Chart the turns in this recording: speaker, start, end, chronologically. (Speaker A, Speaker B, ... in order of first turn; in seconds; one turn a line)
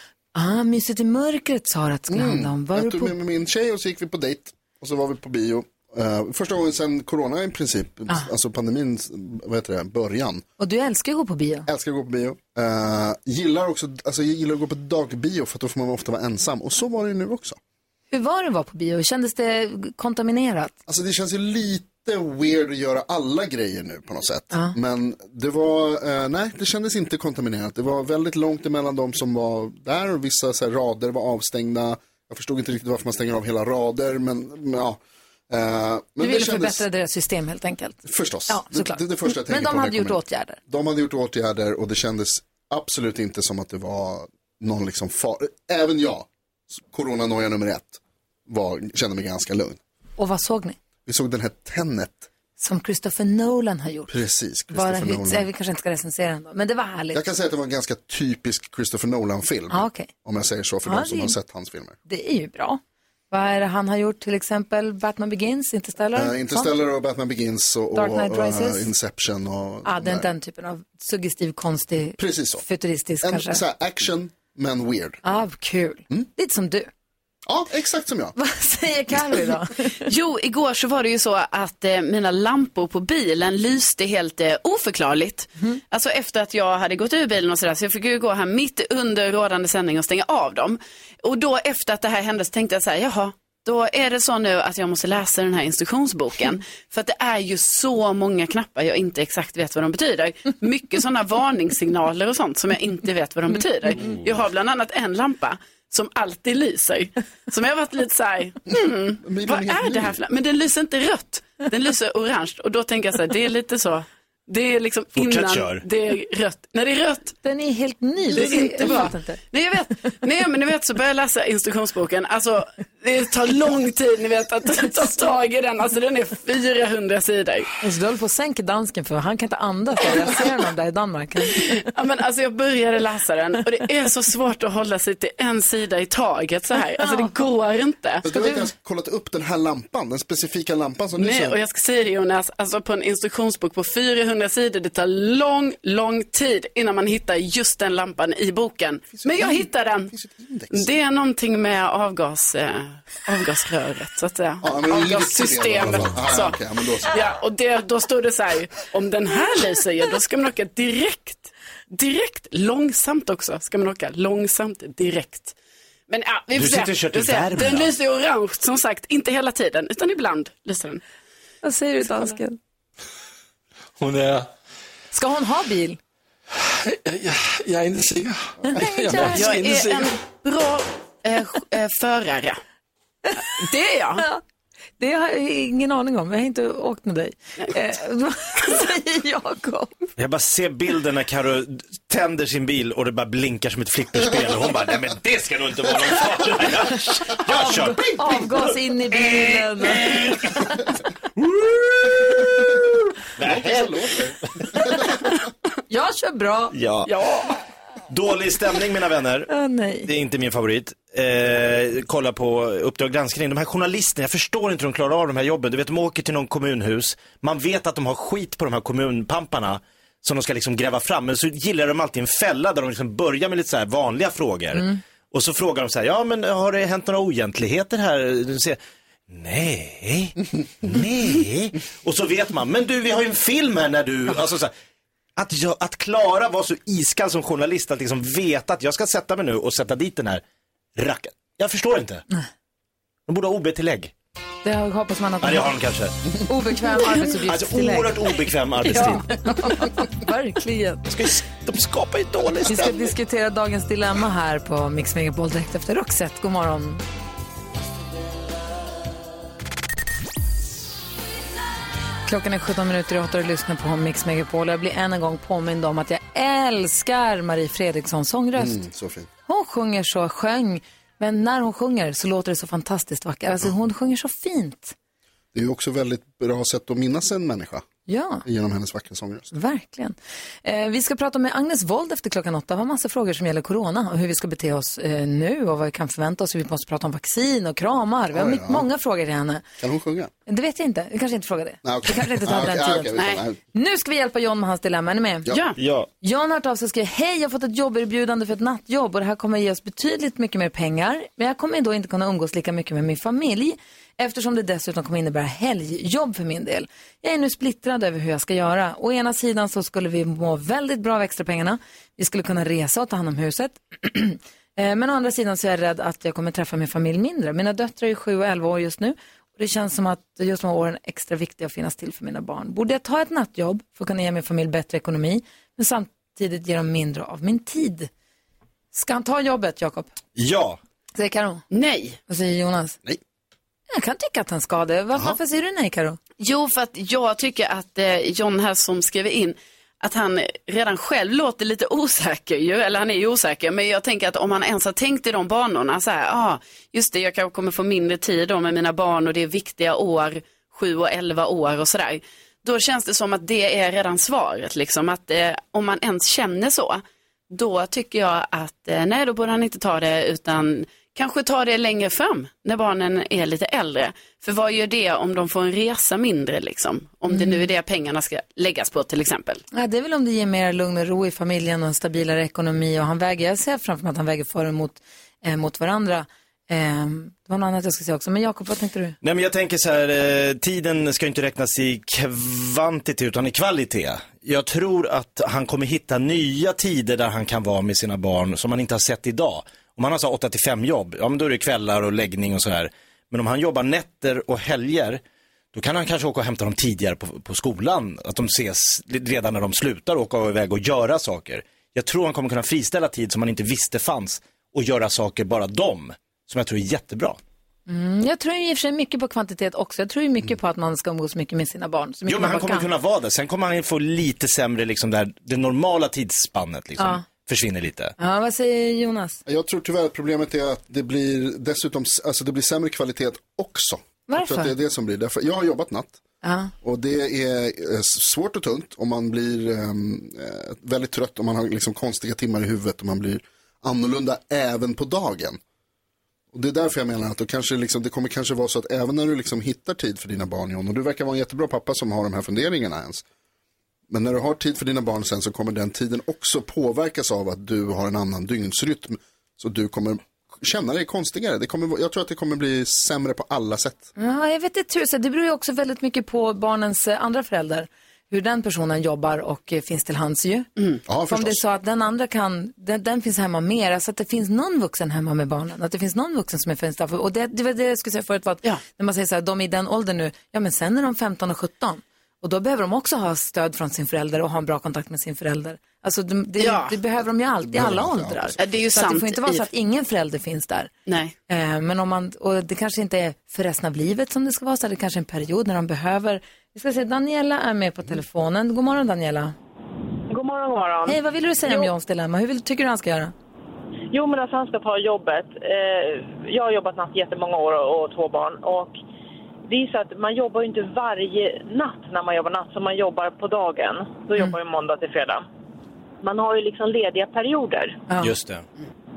Speaker A: 0.3-3.1
Speaker B: 2.1-10.4
Speaker A: 10.6-11.7
Speaker B: 11.7-17.6
Speaker A: 18.1-20.7
Speaker B: 20.9-36.8
Speaker A: 36.2-40.6
Speaker B: 38.0-49.8
Speaker A: 50.2-50.8
Speaker B: 51.0-52.3
Speaker A: 52.6-54.1
Speaker B: 54.1-55.5
Speaker A: 54.7-57.2
Speaker B: 57.1-62.0
Speaker A: 59.7-60.1
Speaker A: 60.8-61.4
Speaker A: 62.1-62.8
Speaker A: 63.3-66.7
Speaker B: 66.1-70.3
Speaker A: 67.9-68.9
Speaker A: 69.8-73.6
Speaker B: 72.2-72.6
Speaker B: 73.2-75.2
Speaker A: 75.2-76.9
Speaker B: 77.5-78.3
Speaker A: 78.3-80.0
Speaker C: 80.0-117.3
Speaker B: 108.7-110.2
Speaker D: 115.2-115.8
Speaker A: 117.4-119.4
Speaker C: 118.3-127.7
Speaker A: 127.8-131.8
Speaker C: 131.8-138.2
Speaker A: 137.0-137.3
Speaker B: 138.2-141.6
Speaker A: 138.3-138.6
Speaker C: 141.2-150.1
Speaker B: 149.2-150.9
Speaker C: 150.7-165.6
Speaker B: 154.6-157.2
Speaker C: 166.1-171.0
Speaker D: 166.5-167.9
Speaker A: 171.6-172.6
Speaker E: 174.0-174.5
Speaker A: 175.1-176.0
Speaker E: 176.7-180.1
Speaker A: 178.7-179.5
Speaker C: 179.2-182.6
Speaker C: 183.4-184.2
Speaker A: 185.0-189.9
Speaker D: 190.2-200.5
Speaker A: 197.5-200.2
Speaker D: 201.4-202.8
Speaker D: 203.4-204.9
Speaker B: 203.4-205.0
Speaker A: 205.9-206.7
Speaker D: 206.7-207.1
Speaker C: 207.1-207.5
Speaker D: 208.1-209.5
Speaker A: 209.5-210.1
Speaker D: 210.1-234.7
Speaker D: 235.3-240.4
Speaker D: 240.9-242.2
Speaker D: 243.3-244.1
Speaker A: 244.6-245.8
Speaker D: 245.4-246.4
Speaker A: 246.4-248.2
Speaker D: 247.3-249.4
Speaker A: 248.9-251.0
Speaker D: 251.1-253.1
Speaker A: 252.7-257.0
Speaker A: 262.2-268.8
Speaker B: 268.6-269.3
Speaker A: 269.5-274.9
Speaker B: 275.5-277.9
Speaker A: 278.1-278.4
Speaker B: 278.4-279.5
Speaker A: 279.5-289.6
Speaker B: 288.3-288.9
Speaker B: 289.8-290.3
Speaker A: 290.5-293.2
Speaker B: 291.8-293.6
Speaker C: 293.2-293.4
Speaker A: 293.7-295.5
Speaker C: 295.5-295.8
Speaker D: 295.8-296.1
Speaker A: 296.2-328.1
Speaker A: 328.9-330.1
Speaker D: 330.3-330.8
Speaker A: 331.1-331.6
Speaker C: 331.7-332.2
Speaker A: 332.3-333.0
Speaker A: 333.9-336.2
Speaker C: 336.4-369.6
Speaker A: 367.3-367.6
Speaker A: 369.7-379.2
Speaker D: 379.2-395.2
Speaker D: 395.7-407.4
Speaker A: 407.9-412.9
Speaker D: 412.3-418.1
Speaker A: 418.2-419.4
Speaker B: 419.4-426.2
Speaker A: 424.3-424.7
Speaker A: 426.4-426.7
Speaker B: 426.8-435.6
Speaker B: 436.5-443.2
Speaker B: 444.1-454.1
Speaker A: 454.2-460.7
Speaker B: 461.1-461.6
Speaker A: 461.3-480.9
Speaker C: 476.6-476.9
Speaker B: 477.6-478.6
Speaker C: 478.6-479.6
Speaker C: 481.1-481.3
Speaker A: 481.5-489.5
Speaker F: 490.3-491.9
Speaker A: 491.1-493.3
Speaker F: 494.1-498.9
Speaker F: 499.7-505.4
Speaker F: 506.2-508.0
Speaker D: 508.2-508.6